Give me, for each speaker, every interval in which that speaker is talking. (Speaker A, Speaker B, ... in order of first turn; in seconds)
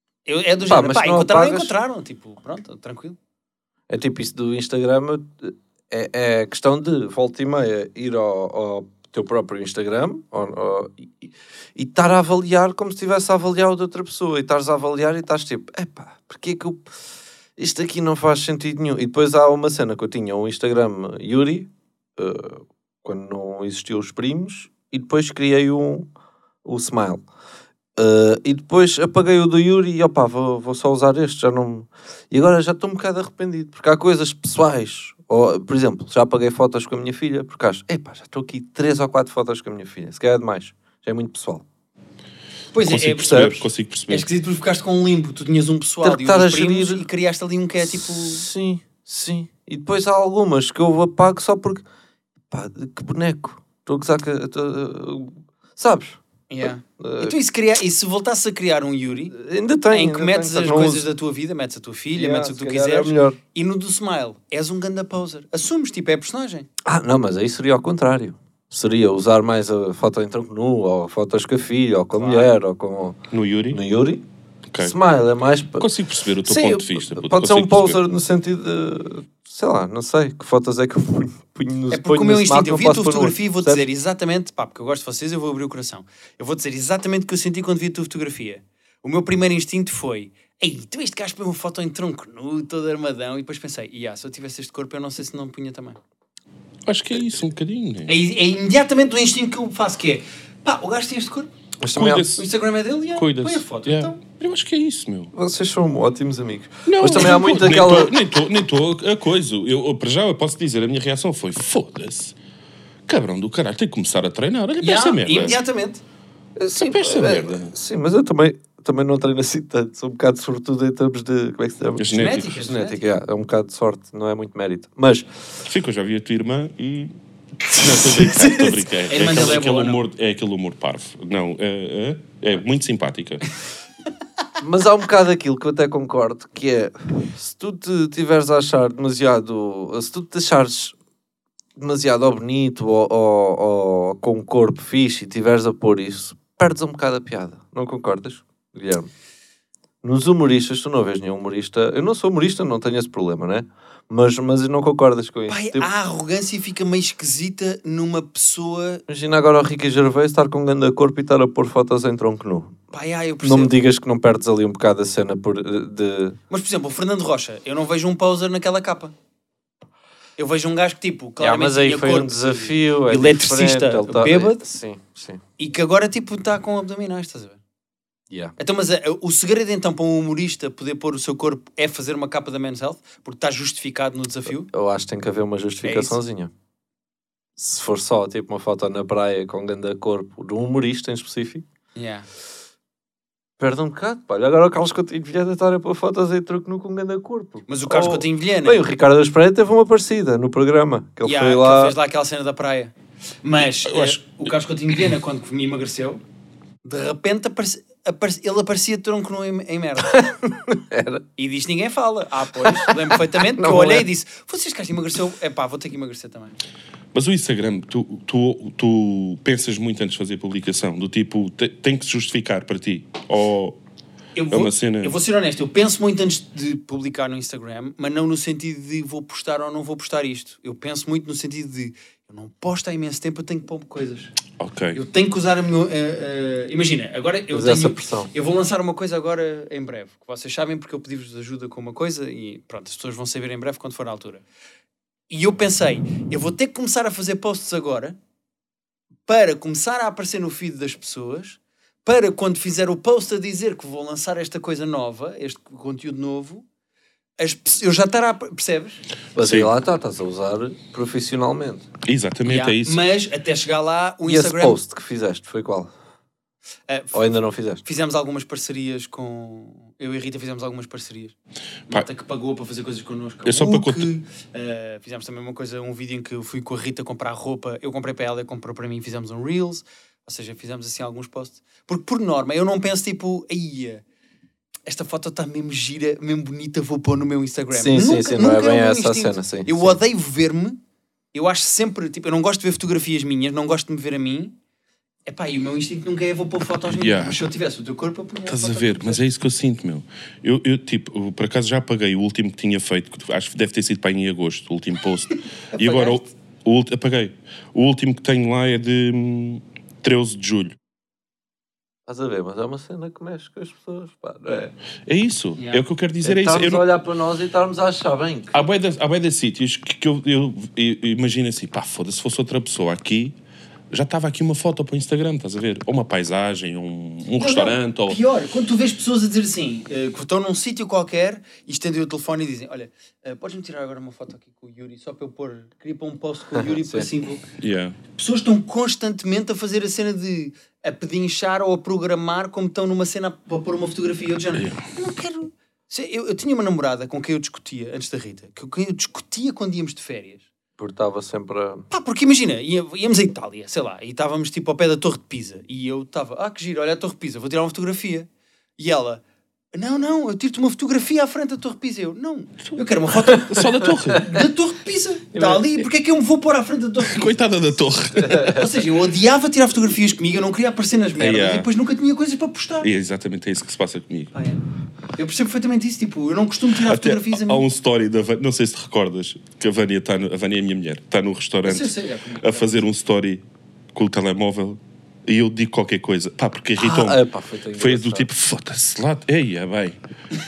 Speaker A: 0.3-3.2, 42.7-48.5, 56.5-59.4, 59.9-66.7, 72.1-72.5, 81.9-96.0, 98.1-101.5, 102.4-104.2, 114.8-116.0, 122.1-123.0, 129.1-130.0, 155.5-159.0, 162.9-163.7, 166.5-169.1, 170.4-174.7, 175.6-177.6, 178.6-184.7, 185.8-186.2, 192.0-192.3, 197.7-198.8, 201.2-206.2, 206.8-210.3, 211.4-216.6, 224.3-234.3, 234.9-244.4, 245.3-248.2, 249.3-256.6, 257.4-259.0, 262.5-264.8, 266.9-271.4, 271.9-284.0, 284.9-290.8, 291.3-294.6, 295.3-299.2, 305.7-306.2, 327.4-337.4, 338.1-350.5, 351.9-359.2, 359.7-367.4, 368.3-372.9, 374.3-374.6, 375.2-377.6, 381.6-382.8
Speaker B: 0.7-1.7, 3.9-16.9, 17.6-26.1, 26.6-27.3, 28.0-41.6, 43.3-43.5, 46.0-47.1, 47.9-51.8, 52.5-57.4, 59.3-61.1, 62.1-63.4, 66.8-74.2, 74.8-75.9, 76.4-83.9, 101.8-102.3, 105.3-108.2, 116.6-125.3, 127.8-128.8, 134.6-140.9, 141.8-149.1, 150.0-155.9, 159.1-162.8, 163.4-166.4, 171.4-175.4, 178.3-178.6, 184.5-186.5, 187.6-191.7, 193.6-201.9, 210.1-211.2, 212.6-214.1, 237.5-238.3, 259.4-261.9, 264.2-265.9, 267.1-267.8, 287.8-290.0, 312.1-314.7, 316.2-318.6, 336.6-337.1, 350.8-351.9, 365.3-365.6, 368.2-368.6, 386.8-388.3
Speaker C: 42.8-44.3, 73.3-73.8, 75.8-78.0, 96.9-98.1, 101.9-102.5, 103.2-105.3, 106.9-112.4, 113.1-115.6, 116.8-117.7, 122.0-122.5, 125.7-127.1, 127.7-133.4, 203.7-204.5, 217.1-223.8, 224.5-225.2, 234.6-235.0, 259.4-259.7, 262.1-263.0, 273.4-274.1, 296.9-297.4, 298.5-310.8, 315.1-316.9, 318.5-323.4, 323.9-328.2, 337.6-338.0, 344.5-344.9, 363.3-364.4, 367.1-368.6, 371.2-371.7, 372.8-374.3, 376.8-383.4, 383.9-387.2, 387.8-390.0